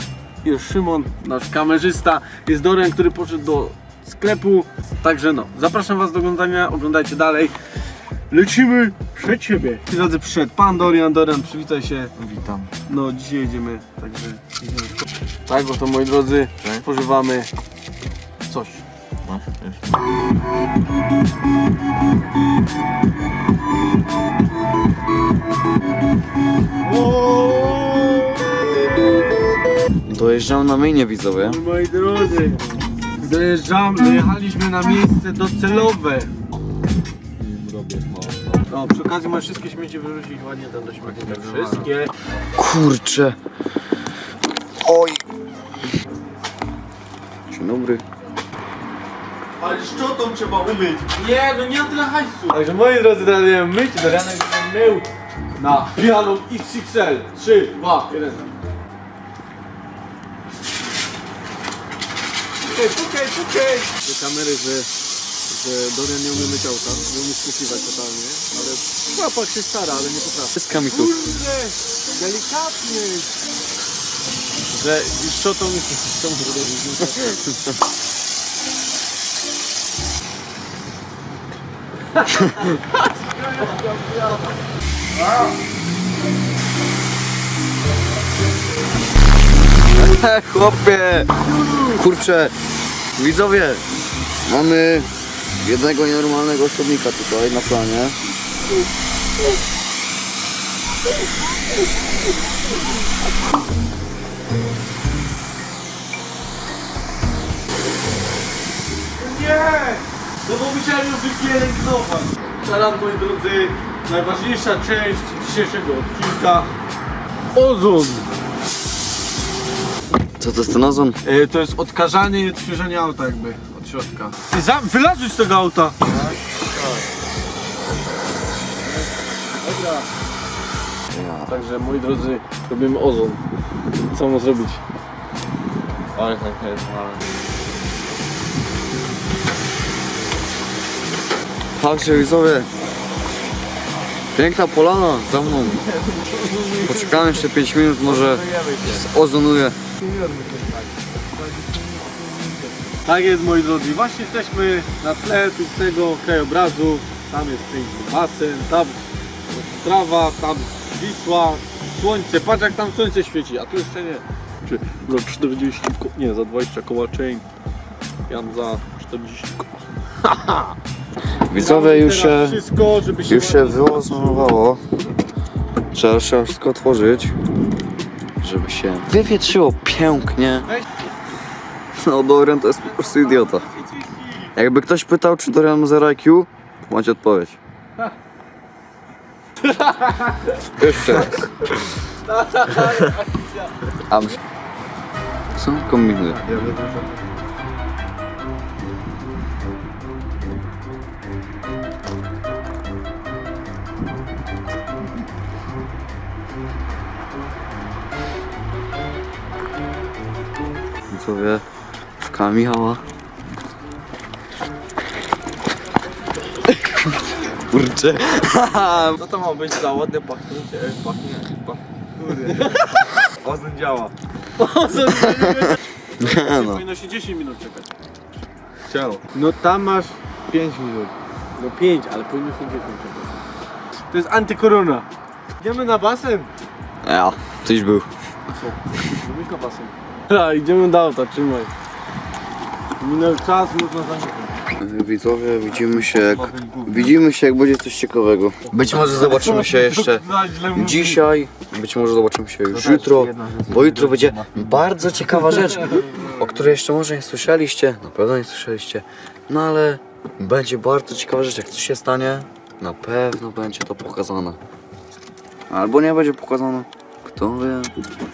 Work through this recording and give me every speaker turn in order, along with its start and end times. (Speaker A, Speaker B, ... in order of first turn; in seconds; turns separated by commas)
Speaker A: 0.4-7.6, Speaker A: 8.3-12.1, Speaker B: 12.2-12.7, Speaker A: 12.9-14.7, Speaker A: 15.5-17.5, Speaker A: 18.5-18.8, Speaker B: 19.2-19.9, Speaker A: 26.8-29.2, Speaker C: 30.1-31.6, Speaker A: 31.4-36.3, Speaker B: 37.4-38.6, Speaker A: 38.7-42.1, Speaker B: 41.0-41.9, Speaker C: 42.6-43.4, Speaker C: 44.8-45.2, Speaker C: 47.5-48.0, Speaker A: 49.6-58.5, Speaker A: 62.6-64.9, Speaker A: 65.5-73.3, Speaker C: 70.6-71.1, Speaker A: 74.7-77.4, Speaker A: 82.2-84.4, Speaker C: 89.9-91.3, Speaker A: 91.5-92.0, Speaker C: 91.9-92.5, Speaker C: 93.2-93.8, Speaker C: 94.5-95.1, Speaker C: 95.6-98.2, Speaker A: 109.2-116.7, Speaker A: 117.5-118.3, Speaker C: 120.4-121.2, Speaker A: 121.2-126.0, Speaker B: 126.0-127.1, Speaker A: 129.6-130.1, Speaker B: 131.1-131.5, Speaker A: 131.5-133.4, Speaker A: 134.1-134.8, Speaker B: 136.2-137.2, Speaker C: 141.8-142.7, Speaker C: 144.4-145.8, Speaker B: 145.6-147.5, Speaker C: 146.8-149.8, Speaker B: 148.0-149.1, Speaker B: 150.0-152.7, Speaker A: 153.1-167.4, Speaker A: 168.3-170.8, Speaker C: 171.5-172.6, Speaker A: 171.5-174.6, Speaker C: 173.2-174.8, Speaker C: 175.9-177.3, Speaker C: 178.4-180.7, Speaker C: 181.9-183.7, Speaker A: 183.0-184.5, Speaker C: 184.6-187.6, Speaker A: 189.7-190.6, Speaker C: 190.8-191.5, Speaker A: 192.3-193.6, Speaker C: 194.1-194.4, Speaker C: 195.5-196.6, Speaker B: 196.4-197.2, Speaker C: 211.1-211.6, Speaker C: 212.2-213.0, Speaker C: 216.7-219.2, Speaker B: 218.9-224.1, Speaker A: 222.3-223.2, Speaker A: 224.6-227.9, Speaker C: 225.1-226.8, Speaker B: 228.9-229.2, Speaker A: 229.3-230.2, Speaker B: 230.5-231.1, Speaker A: 231.6-233.4, Speaker A: 234.1-235.1, Speaker A: 235.6-236.5, Speaker C: 237.0-238.1, Speaker A: 238.5-241.7, Speaker A: 243.0-244.6, Speaker C: 244.8-264.6, Speaker B: 246.3-247.1, Speaker A: 248.8-251.3, Speaker B: 252.7-254.8, Speaker A: 256.0-256.2, Speaker C: 265.7-267.9